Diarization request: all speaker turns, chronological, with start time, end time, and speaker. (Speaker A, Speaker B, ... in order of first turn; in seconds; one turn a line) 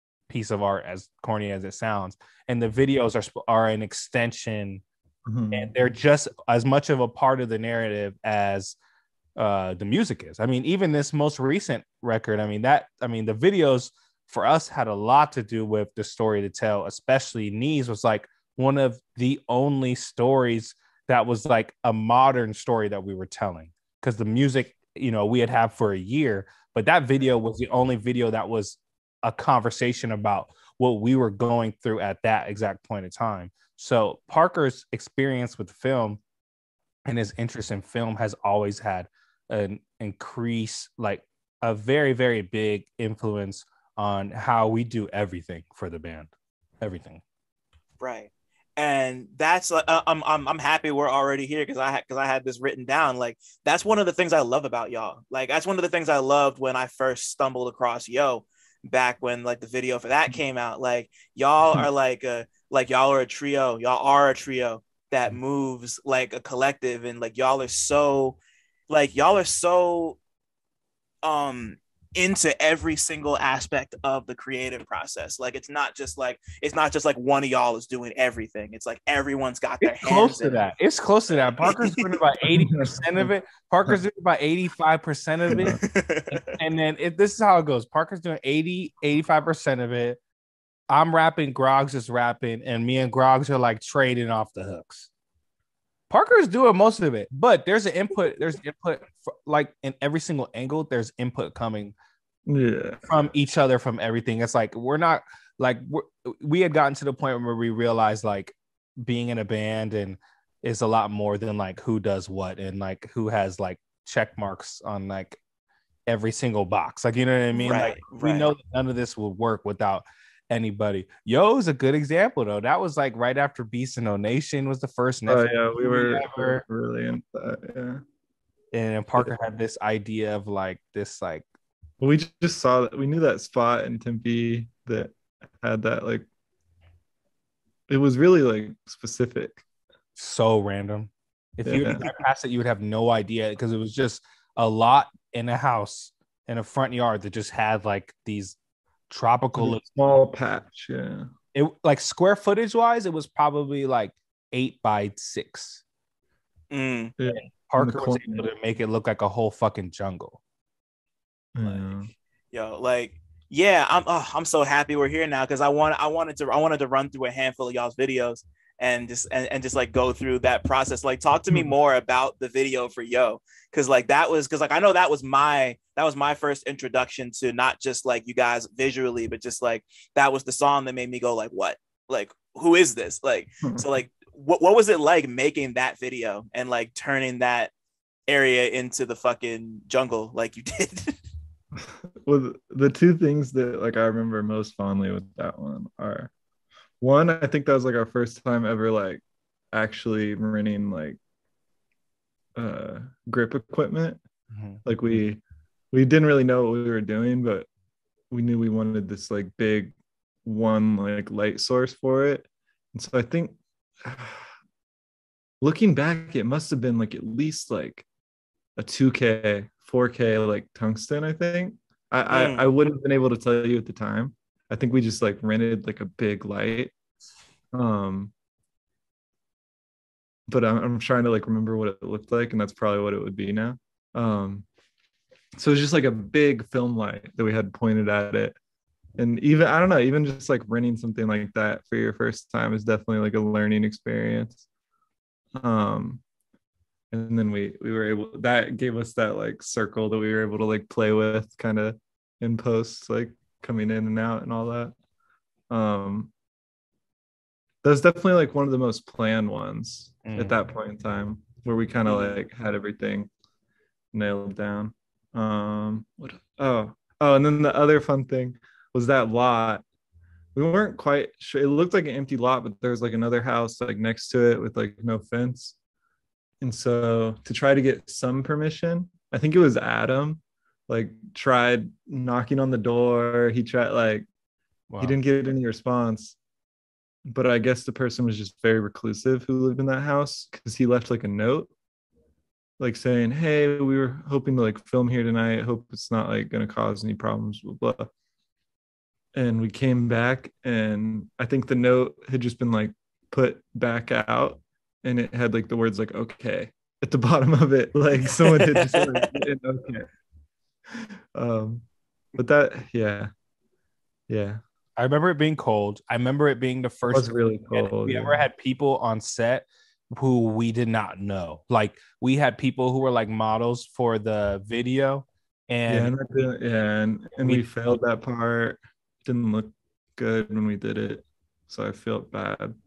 Speaker A: 0.3-4.8
Speaker B: 5.2-5.7
Speaker A: 5.5-8.8
Speaker A: 9.3-36.2
Speaker A: 37.0-46.3
Speaker A: 46.8-47.2
Speaker C: 48.0-68.4
Speaker C: 68.9-70.2
Speaker C: 71.2-80.6
Speaker A: 79.8-85.8
Speaker C: 81.6-82.0
Speaker B: 82.5-83.3
Speaker B: 85.5-85.8
Speaker C: 85.5-86.5
Speaker A: 86.4-90.2
Speaker A: 90.9-95.1
Speaker A: 96.1-101.9
Speaker B: 102.5-103.0
Speaker A: 103.0-115.4
Speaker A: 116.1-126.6
Speaker C: 117.5-118.5
Speaker B: 125.3-128.0
Speaker A: 128.7-131.4
Speaker B: 132.0-136.2
Speaker B: 137.9-139.6
Speaker A: 140.2-148.6
Speaker B: 141.6-142.0
Speaker A: 149.1-149.8
Speaker B: 149.6-151.3
Speaker A: 151.5-155.8
Speaker C: 156.7-157.1
Speaker B: 157.2-158.4
Speaker A: 157.3-160.4
Speaker B: 161.5-162.1
Speaker C: 162.5-187.7
Speaker C: 188.3-191.2
Speaker B: 191.8-196.3
Speaker B: 197.0-201.2
Speaker B: 202.6-204.2
Speaker A: 204.5-204.8
Speaker B: 204.8-205.4
Speaker B: 205.9-207.7
Speaker B: 208.3-209.9
Speaker B: 210.4-214.5
Speaker B: 215.6-218.1
Speaker B: 218.8-226.9
Speaker C: 222.3-222.7
Speaker B: 227.7-228.3
Speaker B: 230.5-234.7
Speaker B: 235.6-238.6
Speaker B: 239.2-244.6
Speaker B: 245.6-246.2
Speaker B: 247.1-254.9
Speaker B: 255.7-256.3
Speaker B: 257.8-263.3
Speaker A: 260.2-260.5
Speaker C: 262.1-262.4
Speaker B: 264.1-269.8
Speaker B: 270.5-275.8
Speaker B: 276.6-284.3
Speaker A: 284.9-285.1
Speaker B: 285.0-286.4
Speaker B: 287.3-291.7
Speaker B: 292.8-298.1
Speaker B: 299.3-310.1
Speaker C: 308.4-309.4
Speaker B: 310.9-313.3
Speaker B: 314.3-314.6
Speaker A: 315.0-326.1
Speaker B: 317.1-318.4
Speaker B: 325.9-332.7
Speaker A: 327.4-327.7